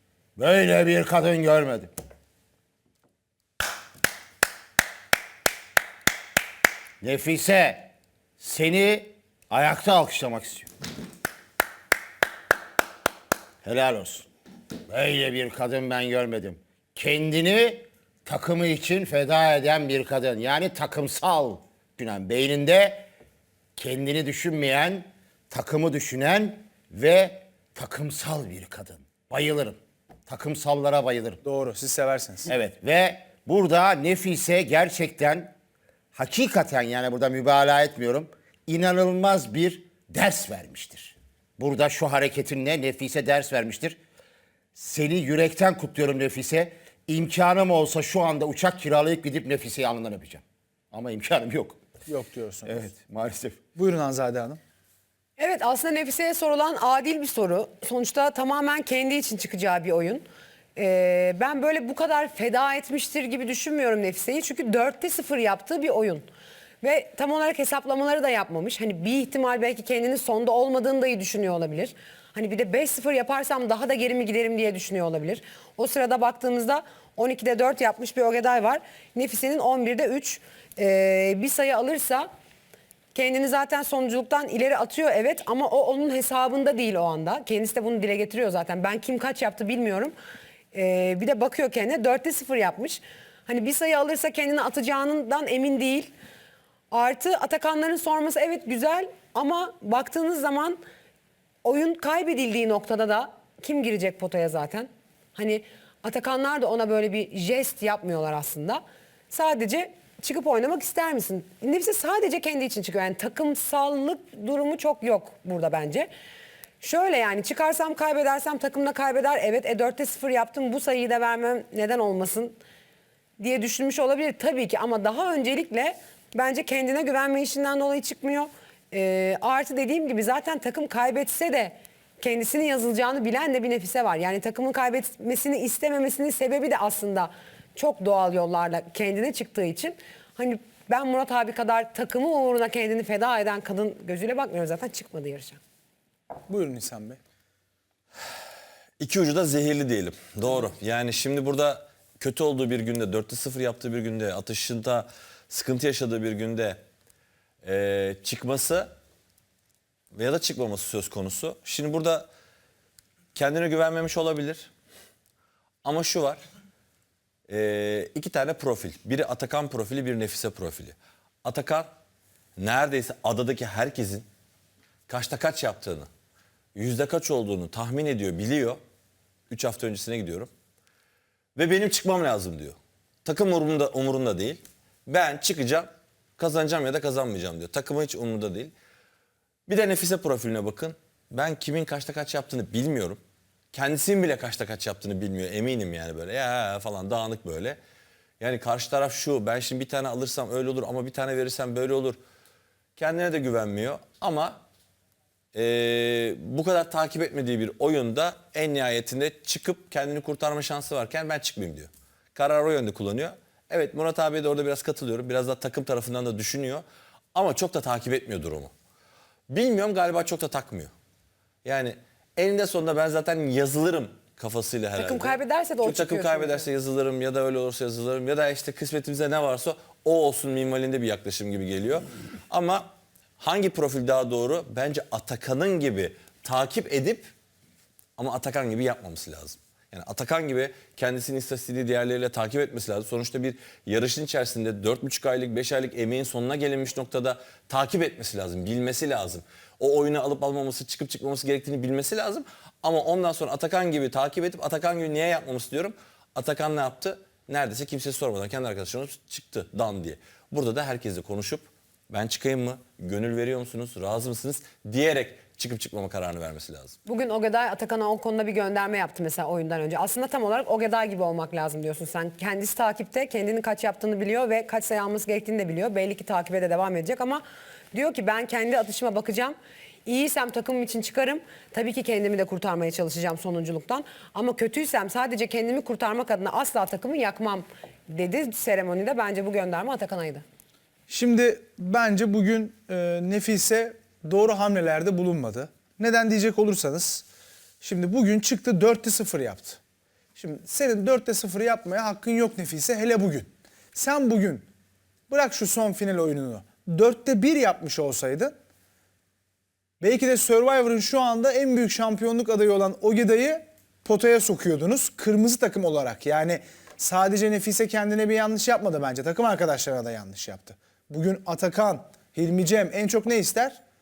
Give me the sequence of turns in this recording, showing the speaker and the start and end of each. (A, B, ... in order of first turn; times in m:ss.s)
0:00.4-0:01.9 A
0:07.0-0:10.7 A
0:13.6-0:14.3 A
0:14.9-0:23.1 A
0:23.8-0:31.4 A
0:31.4-0:32.5 B
0:32.5-0:35.5 A
0:36.1-0:44.0 A
0:44.8-0:51.8 A
0:52.1-0:52.9 B
0:52.7-0:53.6 A
0:53.8-0:54.6 B
0:55.4-1:00.2 C
1:00.8-1:06.3 C
1:06.8-1:22.3 C
1:23.2-1:30.1 C
1:30.7-1:36.1 C
1:36.9-1:40.8 C
1:41.6-1:56.1 C
1:56.8-2:02.6 C
2:03.4-2:25.6 C
2:26.5-2:27.2 B
2:29.0-2:36.8 D
2:37.6-2:38.9 D
2:40.1-2:42.3 D
2:43.4-2:44.7 D
2:45.8-2:46.4 D
2:47.5-2:51.9 D
2:52.6-2:54.3 D
2:55.1-2:56.1 D
2:56.8-2:58.8 D
2:59.5-3:00.5 D
3:01.6-3:08.7 D
3:09.7-3:13.2 D
3:13.7-3:17.8 D
3:18.4-3:22.2 D
3:23.0-3:24.6 D
3:25.5-3:38.7 D
3:39.5-3:40.9 D
3:41.6-3:57.3 D
3:45.0-3:46.7 C
3:58.2-4:27.0 D
4:27.1-4:50.4 C
4:51.1-4:57.2 B
4:57.8-4:59.8 B
5:00.4-5:04.7 B
5:05.3-5:08.5 B
5:10.0-5:23.8 B